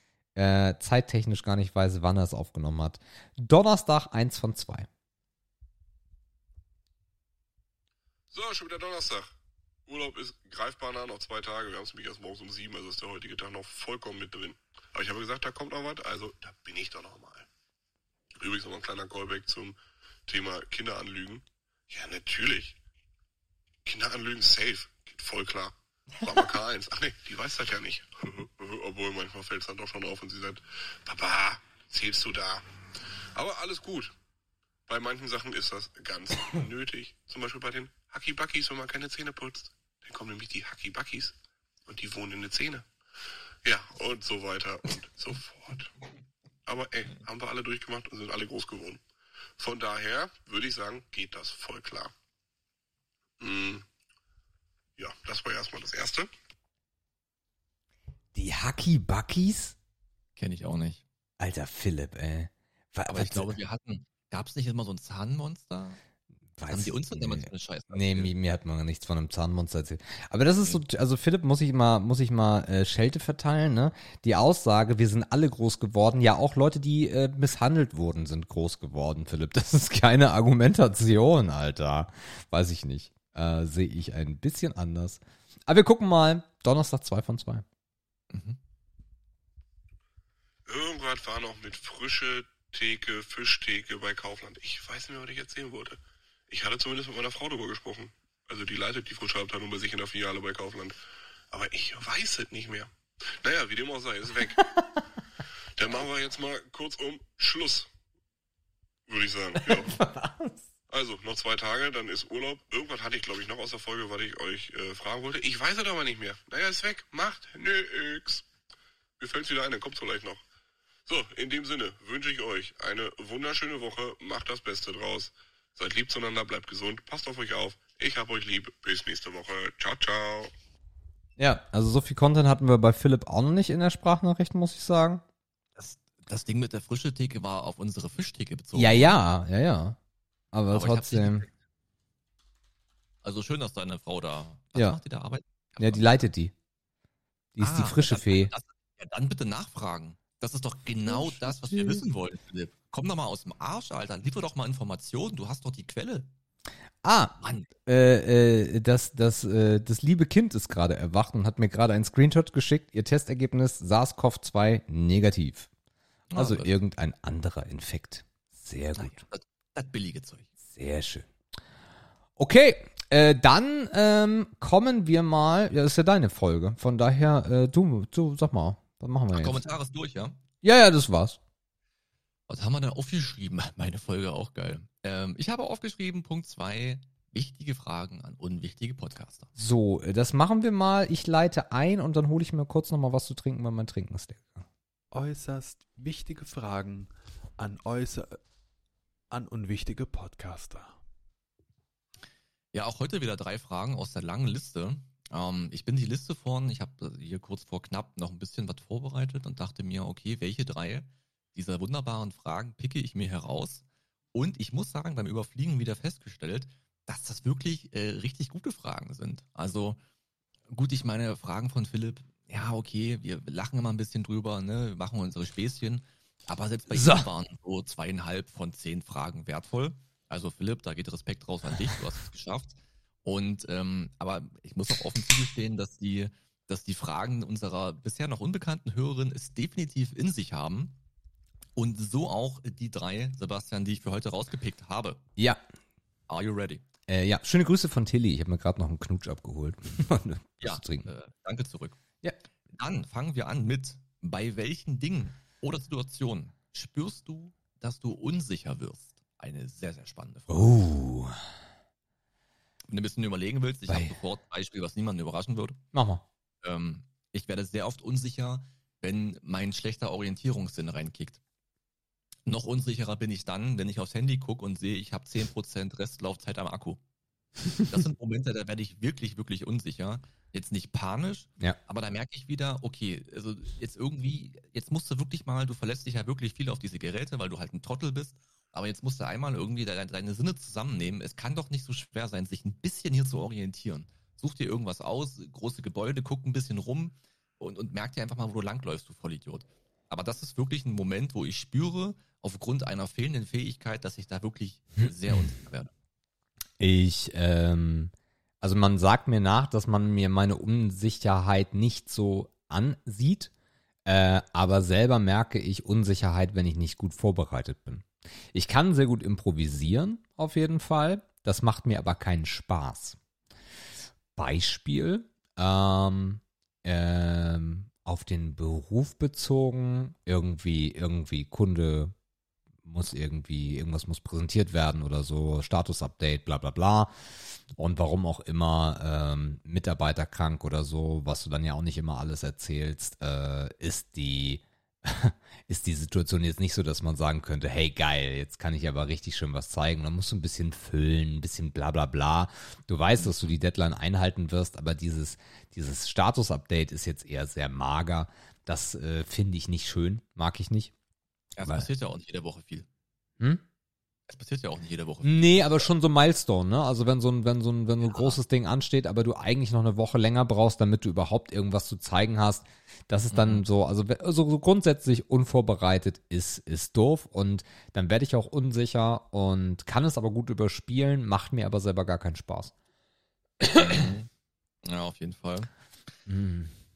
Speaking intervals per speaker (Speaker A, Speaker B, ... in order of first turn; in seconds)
Speaker A: 0.3-4.9, 58.3-59.7, 61.4-63.5, 66.6-87.6, 109.6-110.6, 131.4-135.2, 138.7-140.0, 140.5-141.4, 145.8-146.5, 147.6-148.5, 151.1-152.0, 157.0-157.3, 157.8-165.7, 166.3-169.2, 170.6-171.3, 172.4-179.6, 180.6-181.4, 189.6-194.7, 226.9-227.3, 245.4-245.6, 247.1-251.1, 260.5-261.3, 263.9-264.1, 265.9-266.2, 306.8-313.5, 314.1-323.2, 324.4-332.1, 332.8-360.9, 365.2-382.7, 383.6-384.1, 386.2-386.7
Speaker B: 8.3-9.3, 9.9-17.4, 18.4-22.8, 23.8-32.6, 33.3-34.1, 34.9-41.3, 41.9-42.9, 43.6-45.9, 46.6-49.0, 49.6-52.1, 53.4-53.8, 55.0-56.3, 90.7-101.0, 101.5-102.9, 103.4-104.6, 105.8-107.9, 109.1-110.0, 110.9-118.4, 119.2-120.4, 121.0-130.5
Speaker C: 60.4-61.0, 63.1-66.0, 66.7-68.3, 88.3-88.6, 135.8-139.2, 140.7-141.5, 143.2-146.1, 147.6-156.3, 157.4-157.7, 166.3-166.7, 168.9-170.5, 179.3-180.4, 182.5-189.5, 202.7-220.0, 220.7-240.9, 241.8-245.2, 246.3-246.8, 250.6-252.0, 252.7-260.8, 262.9-265.8, 266.6-271.4, 272.4-277.0, 277.8-305.9, 353.1-353.5, 361.6-362.9, 364.3-365.9, 368.0-368.4, 373.3-373.6, 383.6-384.3, 384.8-385.7
Speaker D: 195.1-198.4, 199.3-201.0